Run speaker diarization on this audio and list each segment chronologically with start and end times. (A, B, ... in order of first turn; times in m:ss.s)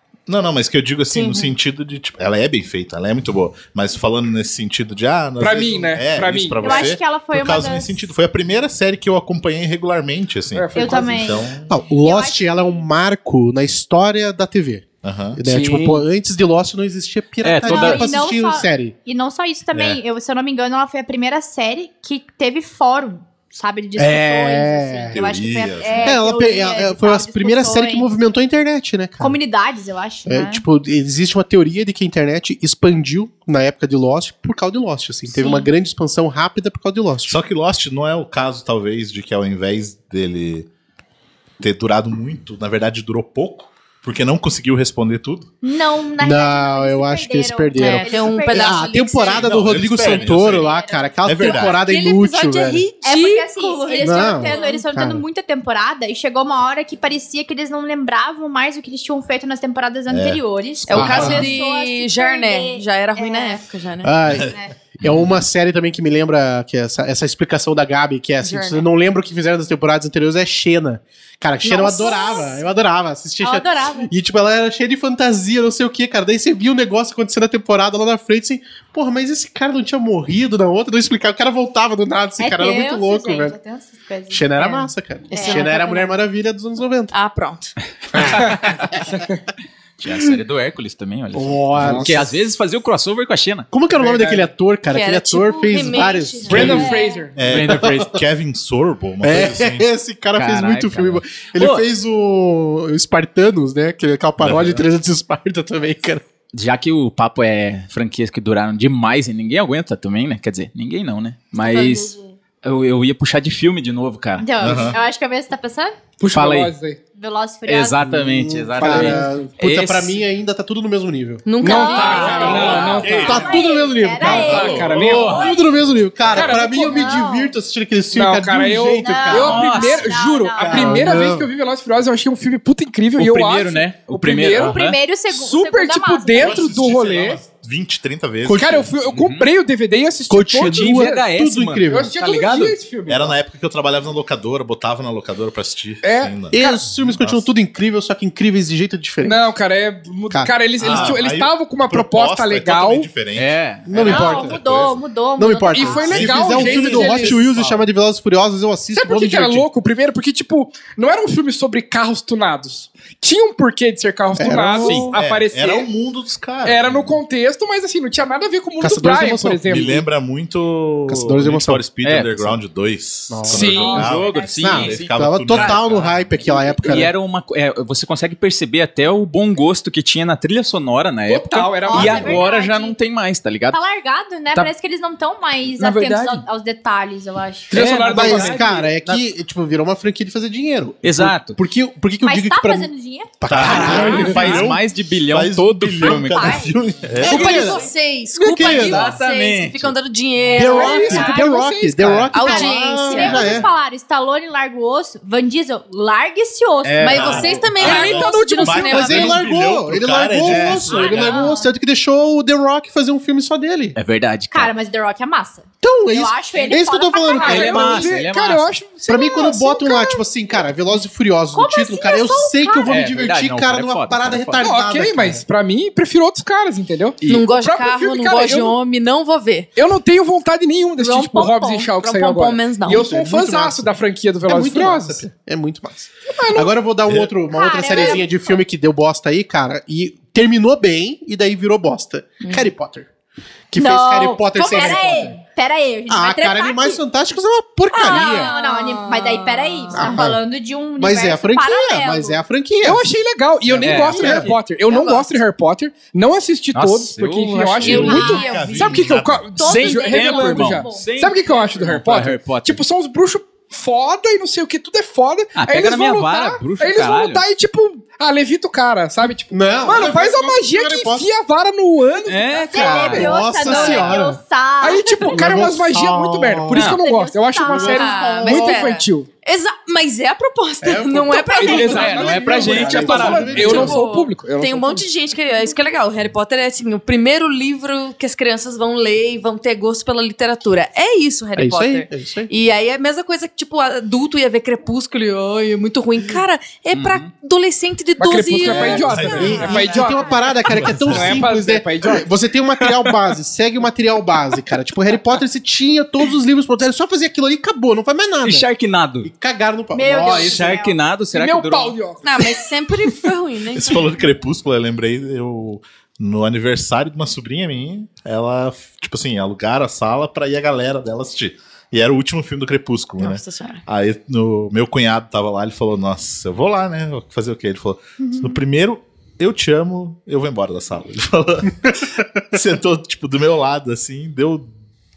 0:00.3-0:11.7 A
0:01.1-0:01.5 B
0:05.4-0:06.9 C
0:06.6-0:08.0 D
0:10.5-0:11.4 C
0:10.7-0:11.4 D
0:11.7-0:18.9 E
0:12.0-0:12.8 D
0:15.0-0:15.4 A
0:15.4-0:16.0 C
0:17.4-0:18.0 F
0:17.6-0:28.1 D
0:19.7-0:20.0 A
0:24.0-0:25.2 E
0:25.1-0:26.2 A
0:26.0-0:29.4 E
0:29.2-0:30.6 D
0:30.3-0:37.4 E
0:35.3-0:35.7 D
0:37.3-0:40.7 A
0:41.6-0:45.5 A
0:45.6-0:49.3 D
0:46.2-0:52.8 E
0:47.7-0:49.5 B
0:49.3-0:50.7 A
0:49.9-0:50.2 F
0:50.1-0:51.1 D
0:51.2-0:51.8 A
0:51.7-0:54.8 B
0:53.0-1:03.6 D
0:54.0-0:55.2 E
1:00.1-1:01.5 A
1:00.9-1:04.1 B
1:00.9-1:01.5 E
1:04.0-1:23.6 E
1:08.4-1:08.8 B
1:11.6-1:12.4 B
1:11.6-1:12.6 D
1:13.4-1:14.1 D
1:22.4-1:26.0 D
1:24.3-1:27.1 E
1:25.3-1:26.1 B
1:27.1-1:27.7 B
1:28.1-1:29.1 E
1:30.0-1:33.7 F
1:31.3-1:32.3 E
1:31.8-1:32.2 C
1:33.7-1:36.9 E
1:33.9-1:34.5 C
1:34.9-1:37.0 B
1:36.4-1:37.4 C
1:36.5-1:36.8 A
1:36.7-1:37.2 D
1:37.4-1:39.8 A
1:37.4-1:38.1 F
1:37.5-1:38.1 E
1:39.2-1:46.2 E
1:40.3-1:41.8 F
1:44.4-1:44.8 A
1:46.5-1:54.8 F
1:51.6-1:52.2 B
1:51.8-1:52.1 D
1:54.4-1:56.0 D
1:54.6-1:55.0 A
1:56.2-1:57.0 C
1:56.3-1:56.7 F
1:57.2-1:58.0 D
1:57.7-2:00.2 F
1:58.0-2:01.5 E
1:58.8-1:59.3 C
2:01.4-2:02.9 B
2:01.6-2:03.5 C
2:01.6-2:05.5 D
2:02.0-2:03.4 F
2:02.4-2:09.7 E
2:02.4-2:03.6 A
2:04.2-2:05.4 A
2:04.2-2:05.6 C
2:04.9-2:05.6 F
2:06.3-2:07.3 C
2:06.8-2:07.5 D
2:08.1-2:14.8 C
2:09.0-2:11.1 D
2:09.3-2:10.1 F
2:10.6-2:11.5 E
2:13.2-2:15.0 F
2:14.6-2:16.6 D
2:15.3-2:17.4 C
2:16.4-2:18.9 A
2:18.4-2:18.8 E
2:18.5-2:21.2 C
2:19.1-2:19.5 F
2:20.3-2:22.1 E
2:20.6-2:22.8 F
2:21.9-2:23.3 C
2:23.1-2:27.5 A
2:26.0-2:26.4 C
2:26.5-2:29.4 E
2:29.2-2:33.1 C
2:30.3-2:31.1 E
2:30.8-2:35.0 A
2:30.8-2:31.2 F
2:33.3-2:33.9 F
2:33.9-2:34.6 E
2:34.0-2:36.2 D
2:35.4-2:39.6 E
2:35.7-2:37.4 C
2:36.1-2:37.8 A
2:38.9-2:45.9 C
2:44.3-2:45.1 E
2:44.8-2:47.2 A
2:44.8-2:45.1 F
2:46.6-2:50.0 C
2:48.8-2:50.0 E
2:49.7-2:56.4 A
2:51.1-2:51.8 E
2:52.0-2:52.5 F
2:53.3-2:54.0 E
2:53.5-2:54.0 C
2:53.7-2:54.8 D
2:53.9-2:56.1 F
2:54.5-2:57.1 E
2:56.8-3:03.8 F
3:01.3-3:02.4 C
3:01.8-3:03.0 D
3:03.7-3:07.8 D
3:05.8-3:06.4 F
3:07.7-3:08.9 C
3:07.7-3:09.2 F
3:08.0-3:14.6 E
3:11.0-3:11.6 F
3:12.2-3:13.3 D
3:13.5-3:17.8 A
3:13.5-3:16.6 F
3:13.8-3:14.4 C
3:16.0-3:16.7 D
3:17.2-3:17.8 E
3:17.2-3:17.7 F
3:17.2-3:21.2 B
3:18.4-3:19.1 E
3:18.5-3:19.8 F
3:20.5-3:23.7 E
3:20.5-3:22.5 C
3:20.8-3:21.4 D
3:22.3-3:23.5 B
3:22.4-3:27.5 D
3:26.8-3:27.5 F
3:27.0-3:29.3 B
3:27.0-3:31.5 A
3:27.7-3:29.4 C
3:28.8-3:34.0 E
3:30.4-3:31.2 F
3:30.8-3:31.7 D
3:34.0-3:34.7 F
3:34.5-3:38.1 D
3:35.8-3:38.1 E
3:37.4-3:40.0 C
3:37.4-3:38.7 F
3:39.0-3:45.4 E
3:39.8-3:40.1 D
3:41.5-3:42.9 D
3:42.8-3:44.7 F
3:44.6-3:48.8 C
3:47.2-3:49.7 B
3:49.8-3:55.2 C
3:51.0-3:53.1 B
3:52.8-3:53.9 E
3:54.5-4:03.1 E
3:56.3-3:56.7 C
3:57.0-3:57.3 A
3:57.5-3:58.3 D
4:02.4-4:02.7 B
4:03.7-4:05.4 E
4:03.7-4:07.0 D
4:04.6-4:05.3 B
4:06.1-4:08.5 E
4:07.9-4:10.2 B
4:07.9-4:12.4 D
4:09.9-4:10.4 E
4:11.0-4:13.1 E
4:12.8-4:33.9 C
4:13.6-4:14.5 E
4:13.8-4:14.6 F
4:14.9-4:15.2 B
4:16.7-4:18.4 F
4:17.8-4:19.5 A
4:17.8-4:19.0 D
4:18.1-4:18.8 B
4:19.5-4:21.0 D
4:19.6-4:22.8 F
4:25.6-4:27.4 F
4:29.5-4:31.3 E
4:32.3-4:34.1 F
4:32.7-4:35.4 D
4:32.8-4:34.4 E
4:34.8-4:39.3 C
4:35.3-4:36.9 E
4:36.7-4:37.0 F
4:37.0-4:38.7 D
4:37.7-4:38.8 E
4:37.8-4:42.2 B
4:40.8-4:44.0 E
4:41.3-4:45.1 C
4:41.6-4:43.9 F
4:43.5-5:00.0 B
4:51.6-4:52.5 E
4:56.9-4:57.3 F
4:58.2-5:02.3 C
4:58.6-4:59.7 A
4:59.3-5:08.7 E
5:00.6-5:01.4 A
5:08.4-5:09.3 F
5:09.2-5:10.8 E
5:09.9-5:11.0 D
5:10.2-5:11.9 F
5:11.3-5:13.2 C
5:12.2-5:14.1 B
5:13.7-5:34.7 A
5:23.2-5:23.8 B
5:28.2-5:28.4 D